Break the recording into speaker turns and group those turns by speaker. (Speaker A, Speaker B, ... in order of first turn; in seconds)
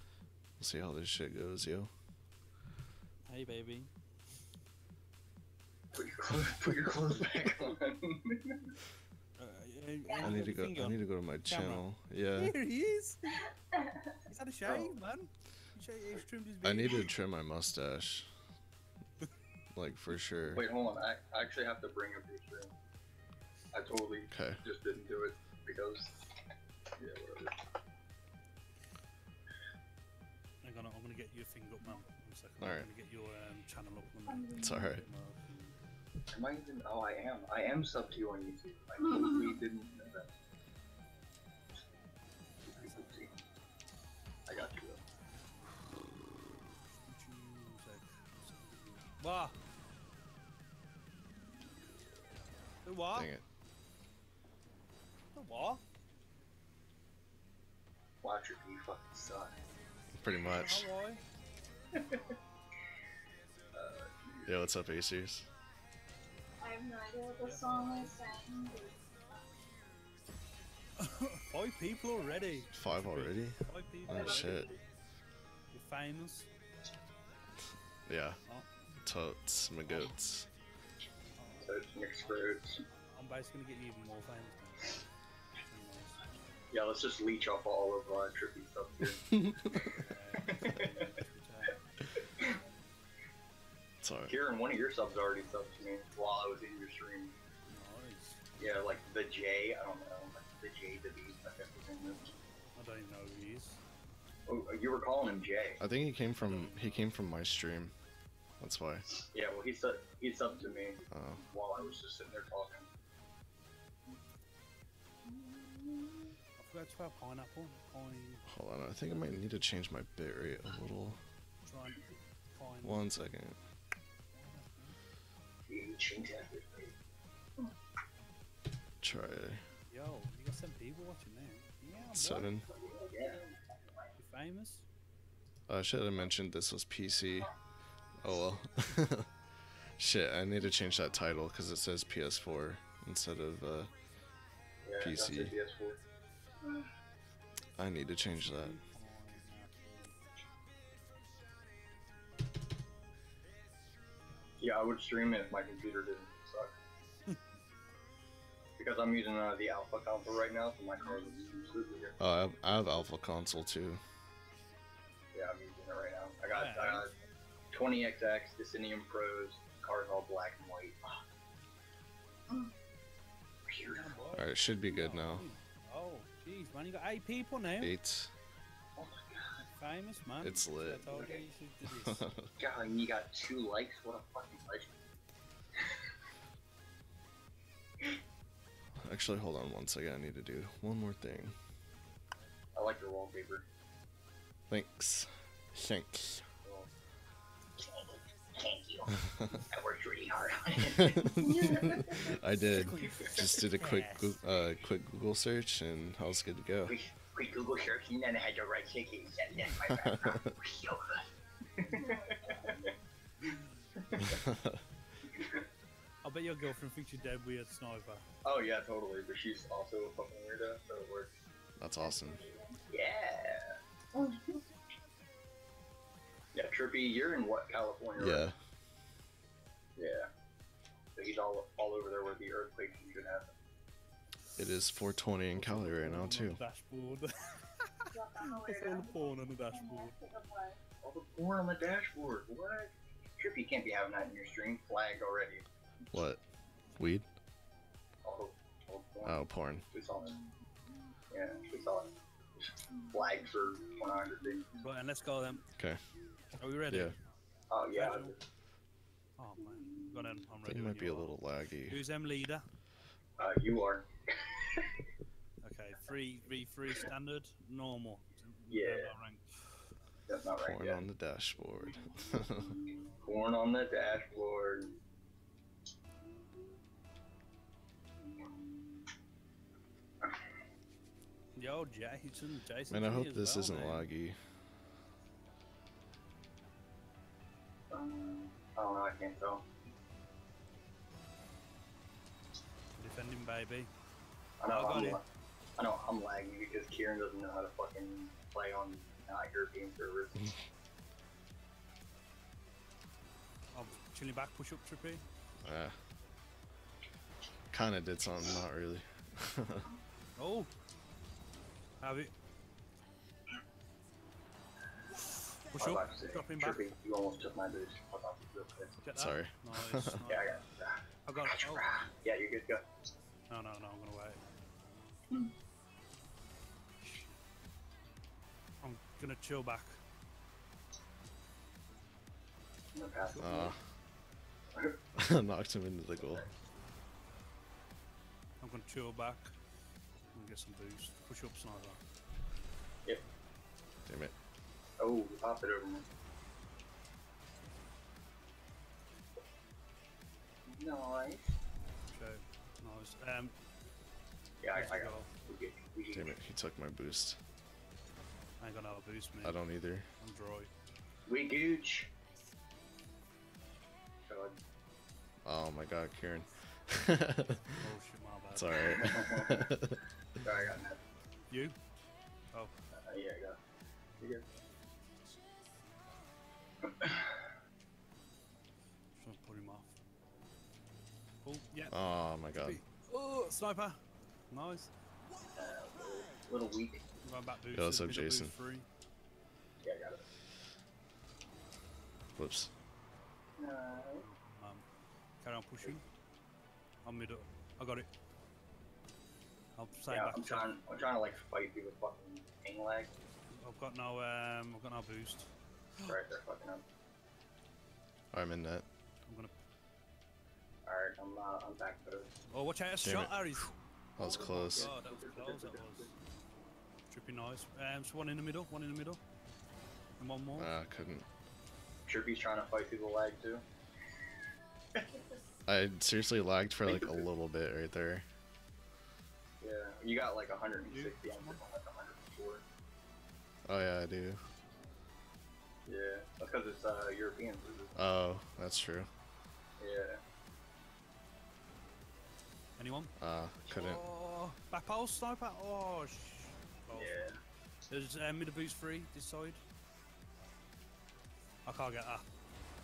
Speaker A: 0.6-1.9, 10.2-12.5, 16.6-18.3, 19.7-20.6, 24.3-24.6, 32.6-32.9, 34.6-35.0, 53.1-53.4, 60.2-60.9, 64.5-65.5, 72.8-74.7, 78.0-78.4, 79.0-80.5, 94.0-94.3, 105.8-107.9, 108.6-109.0, 111.1-111.4, 118.5-121.2, 122.8-123.6, 129.0-129.6, 132.1-132.7, 135.7-137.5, 138.2-139.3, 140.0-143.9, 145.0-145.5, 147.8-148.8, 162.2-164.0, 174.3-175.4, 177.8-178.3, 180.4-181.2, 182.0-182.5, 189.0-191.6, 194.7-196.5, 201.0-206.9, 209.9-210.5, 214.2-214.8, 221.8-222.4, 228.2-228.6, 234.6-236.6, 246.1-246.4, 247.0-247.3, 249.2-249.8, 260.6-262.0, 270.6-272.8, 282.9-284.4, 305.6-305.9, 307.7-309.9, 319.1-320.2, 333.4-333.8, 335.1-336.4, 344.1-344.3, 356.1-357.4, 359.4-360.1, 365.4-367.8, 368.5-370.0, 381.9-382.8, 387.7-388.5, 392.4-392.7, 408.3-408.8, 413.0-413.5, 414.2-414.9, 420.6-421.2, 425.6-428.2, 433.6-434.4, 437.9-439.1, 443.2-444.0
Speaker B: 3.2-3.9, 9.4-11.8, 12.3-13.2, 14.3-17.1, 30.6-35.7, 42.8-43.3, 47.1-48.5, 49.0-49.5, 52.8-53.3, 55.3-55.8, 60.3-61.2, 67.4-68.1, 71.0-74.7, 75.7-76.5, 79.9-80.1, 81.4-82.5, 83.1-85.0, 85.6-86.3, 89.8-91.8, 97.7-98.4, 102.7-103.8, 106.4-107.1, 116.6-118.5, 121.6-123.0, 124.3-125.0, 129.9-132.5, 134.2-134.8, 148.3-150.1, 166.5-167.1, 173.9-177.9, 179.8-182.2, 202.7-204.4, 216.2-218.2, 235.5-240.1, 254.8-255.6, 256.6-257.1, 257.9-258.3, 259.4-261.3, 261.9-262.6, 265.6-269.4, 272.0-273.2, 281.6-284.1, 293.0-293.9, 294.6-295.2, 303.7-305.2, 310.4-310.7, 312.0-312.3, 315.7-316.9, 319.0-320.6, 321.2-321.9, 323.5-324.4, 328.8-330.0, 333.4-333.7, 338.6-339.5, 340.3-342.0, 352.1-353.5, 354.7-355.3, 358.6-359.6, 360.2-360.7, 367.8-369.1, 371.5-371.7, 379.2-379.9, 381.4-381.9, 382.5-384.9, 387.2-388.9, 394.1-394.8, 395.4-396.0, 397.0-398.1, 399.8-400.7, 403.5-406.2, 409.2-409.5, 412.5-416.1, 417.1-419.2, 420.2-420.7, 430.9-431.6, 442.8-443.1, 443.7-447.4, 447.9-449.6, 451.6-452.2
Speaker C: 5.9-8.7, 20.5-22.7, 23.7-26.2, 27.0-27.6, 36.3-40.3, 42.7-43.3, 44.5-45.0, 58.2-59.6, 61.9-62.2, 63.7-64.5, 74.1-74.7, 81.6-82.8, 86.7-91.0, 94.3-97.3, 98.6-102.2, 104.5-105.8, 109.3-112.9, 125.7-126.9, 132.7-133.4, 144.8-146.0, 154.6-156.7, 158.8-162.2, 165.3-167.1, 167.7-171.2, 173.7-174.2, 178.9-179.7, 181.1-181.4, 182.6-184.9, 192.7-193.6, 196.6-196.9, 197.8-202.2, 202.7-203.6, 206.8-212.9, 214.1-214.4, 218.4-221.3, 222.9-223.8, 226.5-228.5, 230.0-230.3, 231.2-233.5, 241.0-245.6, 248.2-250.5, 251.3-252.1, 252.9-254.7, 257.7-258.4, 263.4-264.9, 268.7-269.1, 270.3-271.0, 272.8-274.9, 278.2-279.0, 287.9-289.6, 294.6-295.2, 295.8-300.5, 315.8-318.9, 320.3-322.9, 332.9-333.7, 336.2-336.5, 345.0-346.1, 350.7-351.6, 354.6-356.4, 361.3-362.1, 364.3-364.6, 368.9-369.7, 370.4-371.0, 372.9-373.6, 374.2-374.4, 376.9-377.3, 385.6-387.0, 389.8-390.2, 393.6-394.2, 400.1-403.1, 406.1-406.8, 410.9-412.3, 414.2-416.1, 422.1-423.6, 426.9-427.2, 429.6-432.6, 435.9-438.0, 439.8-440.2, 446.9-447.4
Speaker D: 10.1-10.3, 13.7-14.1, 34.3-34.9, 66.6-69.1, 74.1-74.5, 132.7-133.4, 201.4-202.2, 211.8-212.8, 222.0-222.8, 238.1-240.8